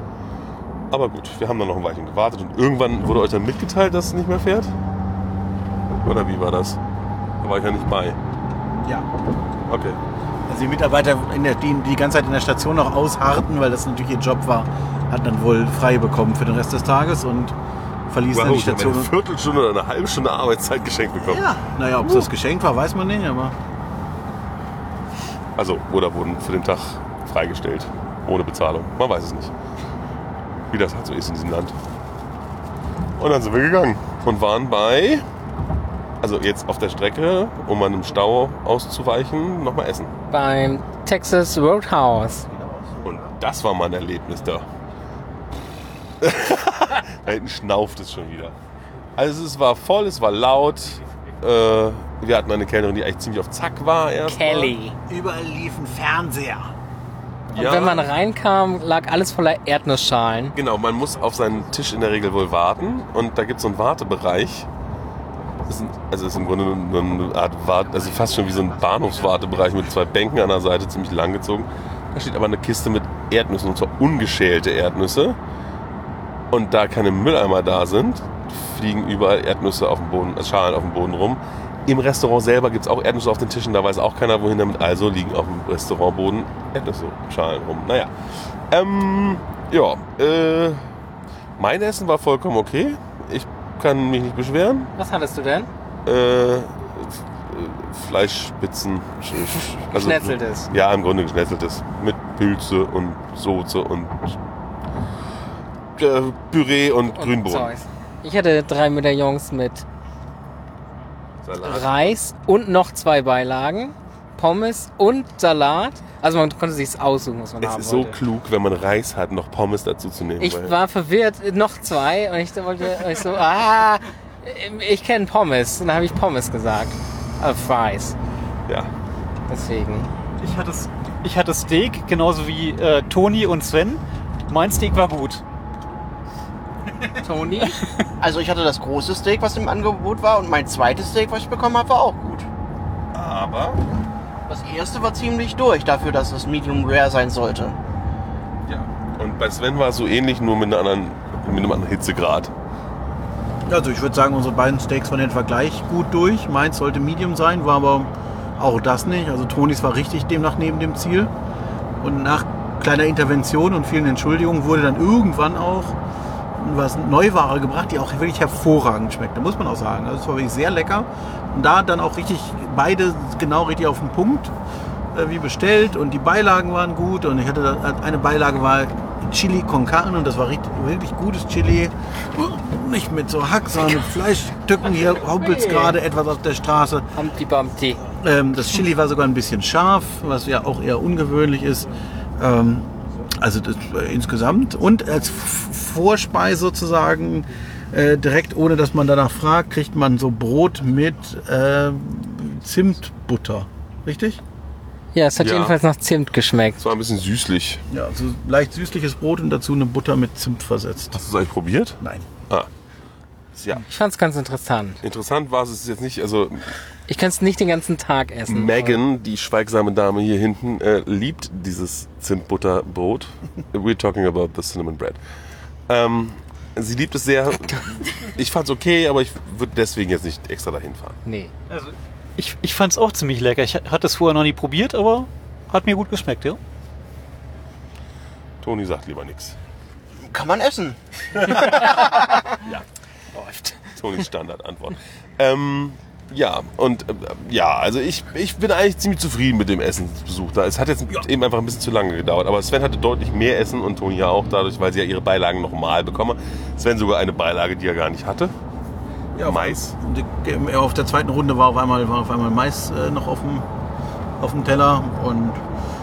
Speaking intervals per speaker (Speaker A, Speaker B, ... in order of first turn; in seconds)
Speaker A: 0.9-4.7, 6.0-6.8, 7.4-8.2, 9.7-10.0, 18.3-21.5, 22.0-22.3, 25.6-29.5, 30.7-31.8, 33.2-35.2, 36.2-40.1, 43.0-44.7, 46.2-48.5, 49.2-54.8, 57.5-58.1, 60.5-64.7, 65.7-75.4, 76.5-88.1, 88.7-90.9, 91.6-94.9, 96.0-104.4, 106.0-107.8, 111.4-112.2, 117.6-120.8, 143.1-143.8, 148.7-152.5, 205.4-205.8, 206.8-207.8, 211.2-212.7, 213.6-213.8, 215.0-216.7, 218.5-225.2, 225.9-231.2, 238.6-239.6, 241.8-242.8, 243.8-258.5, 259.4-259.9
Speaker B: 10.5-17.6, 18.1-19.1, 21.2-23.6, 42.5-43.0, 55.1-56.7, 153.7-161.3, 162.0-166.0, 166.6-174.5, 175.1-187.1, 188.1-204.4, 207.9-211.2, 212.0-212.3, 259.4-263.7, 264.4-265.6
Speaker C: 40.3-42.5, 54.3-55.0, 57.5-60.5, 95.0-95.7, 99.9-100.7, 107.1-109.8, 111.6-118.2, 120.4-128.2, 129.5-130.1, 137.2-137.8, 185.2-186.0, 187.2-188.0, 205.1-206.8, 213.9-215.0, 217.1-219.0, 231.3-231.5
Speaker D: 130.4-135.4, 231.7-236.6
Speaker E: 138.2-142.5, 144.5-147.8, 240.2-241.9